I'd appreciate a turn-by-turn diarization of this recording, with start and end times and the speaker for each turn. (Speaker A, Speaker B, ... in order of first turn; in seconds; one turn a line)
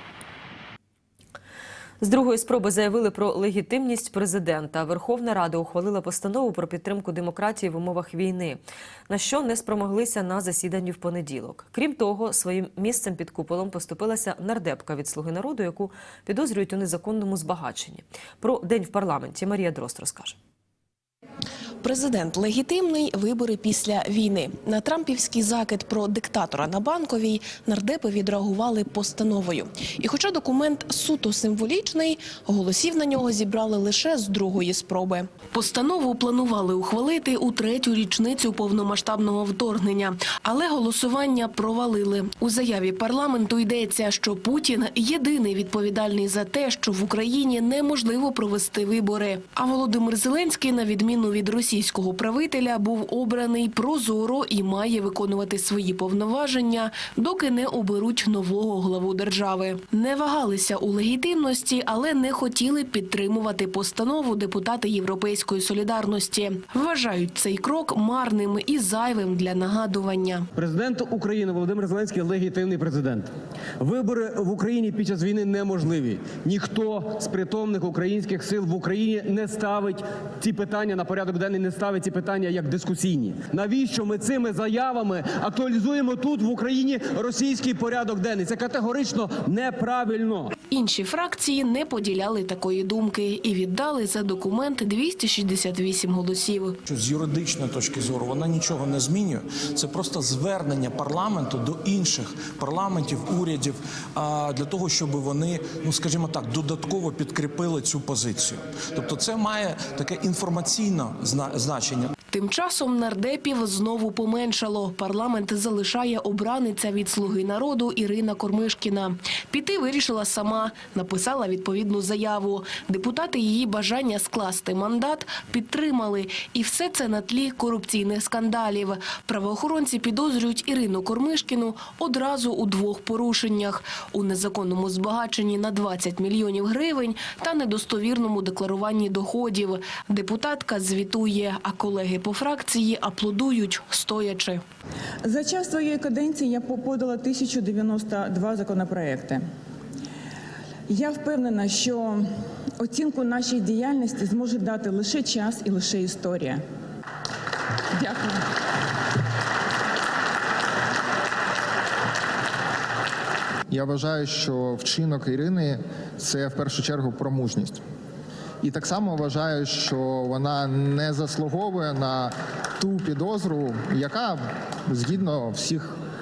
Speaker A: 2.0-20.4
Speaker B: 21.8-70.5
Speaker C: 70.5-90.5
Speaker B: 90.7-96.8
Speaker D: 96.9-112.1
Speaker B: 112.3-144.6
Speaker E: 145.3-149.4
Speaker E: 150.9-152.2
Speaker E: 152.8-156.6
Speaker E: 158.0-158.4
Speaker F: 163.7-167.8
Speaker F: 168.6-176.0